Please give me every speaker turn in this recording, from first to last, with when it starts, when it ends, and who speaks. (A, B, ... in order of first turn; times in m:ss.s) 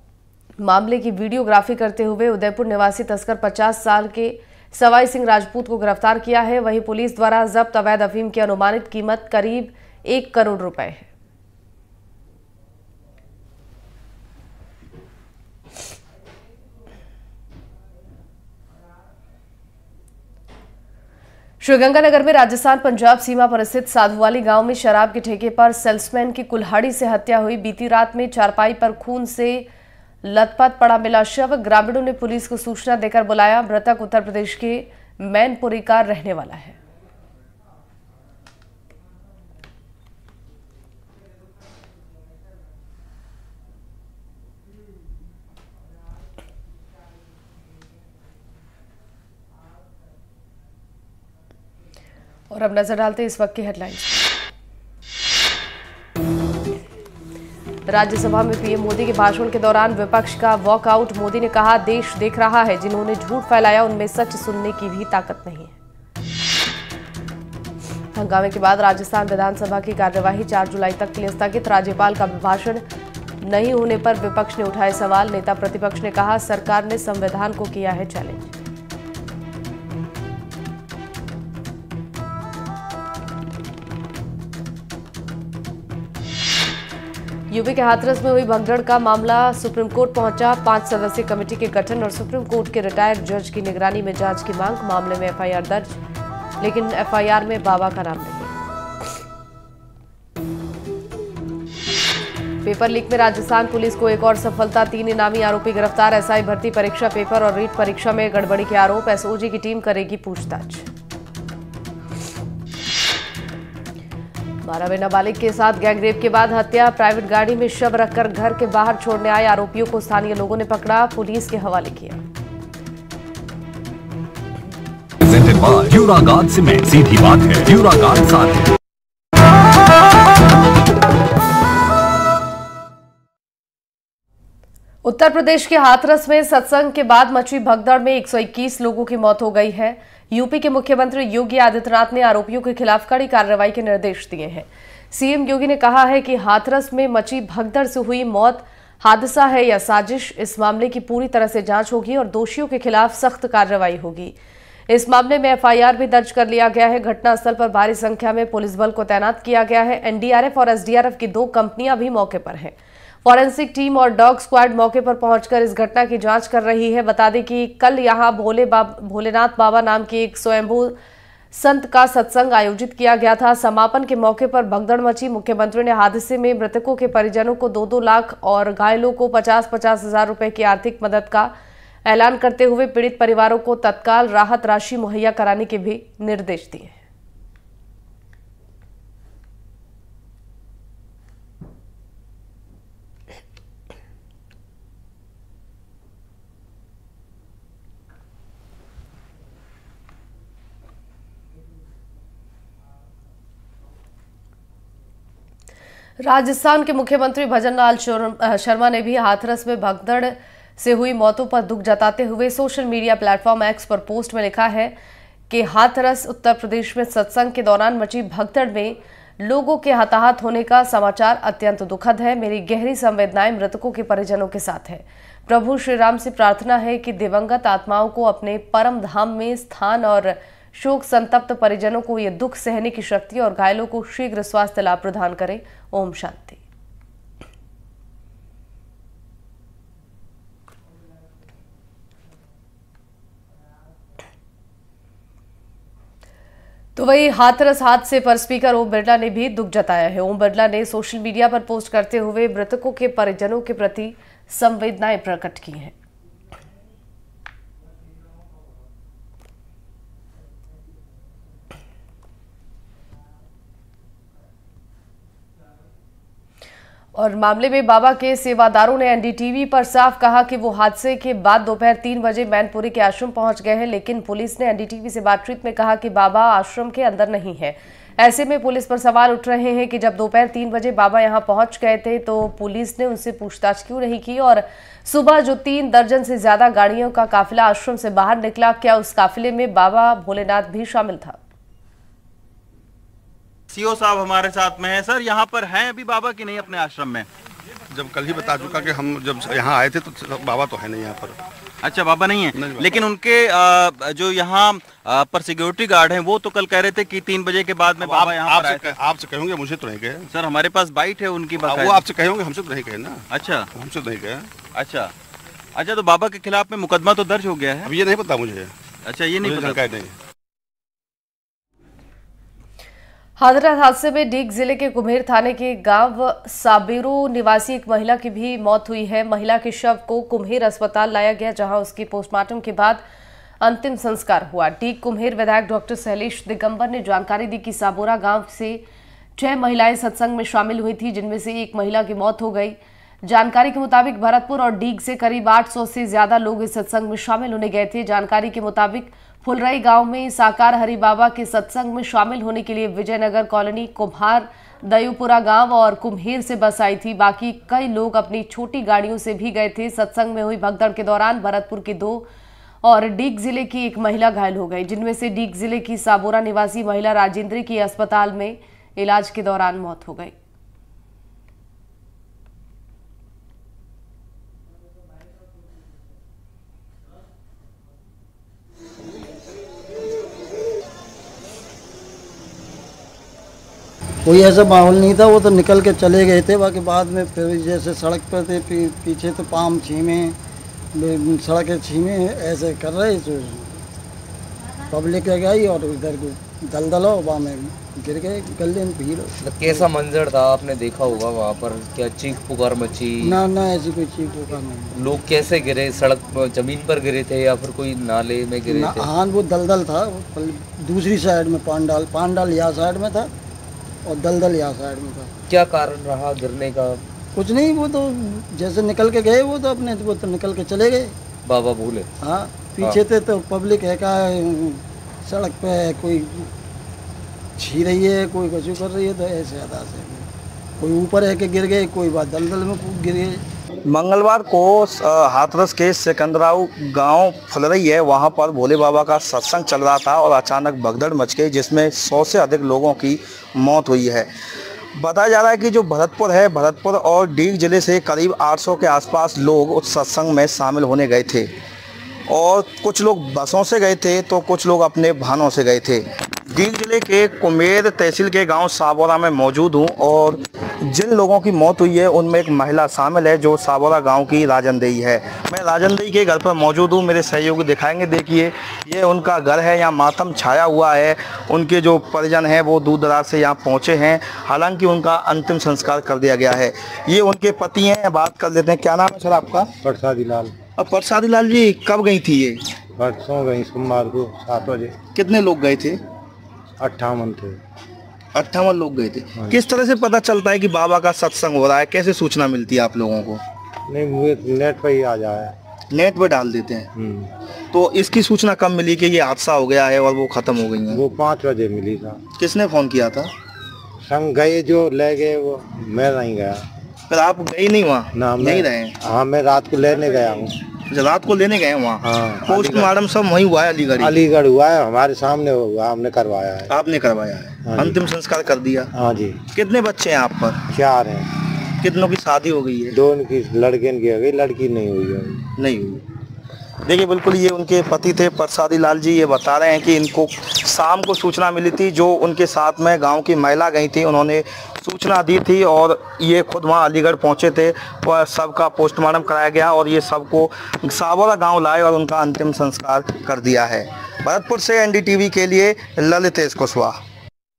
0:00.6-0:11.1 A
0:21.6-0:29.7 A
0:30.2-0:36.8 A
0:52.5-0:54.2 A
0:57.9-1:05.8 A
1:08.1-1:12.8 A
1:13.4-1:18.5 A
1:27.5-1:35.9 A
1:36.6-1:38.5 A
1:42.6-1:50.9 A
1:54.6-2:02.2 A
2:05.2-2:08.7 B
2:15.0-2:34.3 A
2:34.9-2:51.0 A
2:51.5-3:01.5 A
3:02.1-3:07.0 A
3:26.2-3:35.0 A
3:35.5-3:56.6 A
4:07.0-4:15.9 A
4:27.2-4:51.4 A
4:53.7-4:57.3 C
4:57.9-5:01.4 D
5:01.8-5:09.0 C
5:02.5-5:03.1 D
5:08.0-5:10.3 D
5:10.3-5:12.1 C
5:11.6-5:14.5 D
5:13.3-5:13.7 C
5:14.7-5:15.1 C
5:15.8-5:17.9 C
5:17.8-5:18.7 D
5:19.0-5:19.8 C
5:19.4-5:20.1 D
5:23.4-5:33.0 A
5:33.6-5:38.8 A
5:39.4-6:02.3 A
6:02.8-6:10.3 A
6:24.3-6:30.4 E
6:31.0-6:33.7 E
6:34.9-6:39.9 E
6:39.4-6:43.4 F
6:43.2-6:44.9 E
6:45.0-6:49.1 F
6:48.7-6:53.3 E
6:54.0-6:55.3 E
6:55.5-6:57.0 F
6:57.4-7:01.1 E
7:01.5-7:02.1 F
7:02.2-7:06.5 E
7:07.6-7:10.3 E
7:10.8-7:13.4 E
7:13.9-7:24.3 G
7:25.0-7:31.5 G
7:32.3-7:59.7 G
7:59.8-8:00.5 H
8:00.8-8:02.6 G
8:03.0-8:05.0 H
8:05.1-8:06.0 G
8:06.8-8:07.6 H
8:08.3-8:13.4 G
8:13.9-8:15.5 H
8:15.9-8:16.9 G
8:17.0-8:17.3 H
8:17.7-8:21.0 G
8:20.9-8:22.2 H
8:22.4-8:23.3 G
8:24.0-8:26.7 H
8:27.1-8:28.9 G
8:28.1-8:30.5 H
8:30.9-8:34.2 G
8:32.0-8:32.9 H
8:34.0-8:36.7 H
8:36.7-8:38.9 G
8:37.6-8:38.0 H
8:38.9-8:39.4 H
8:39.5-8:40.6 G
8:40.7-8:41.3 H
8:41.8-8:43.0 G
8:42.9-8:45.5 H
8:45.6-8:46.0 G
8:46.8-9:07.0 G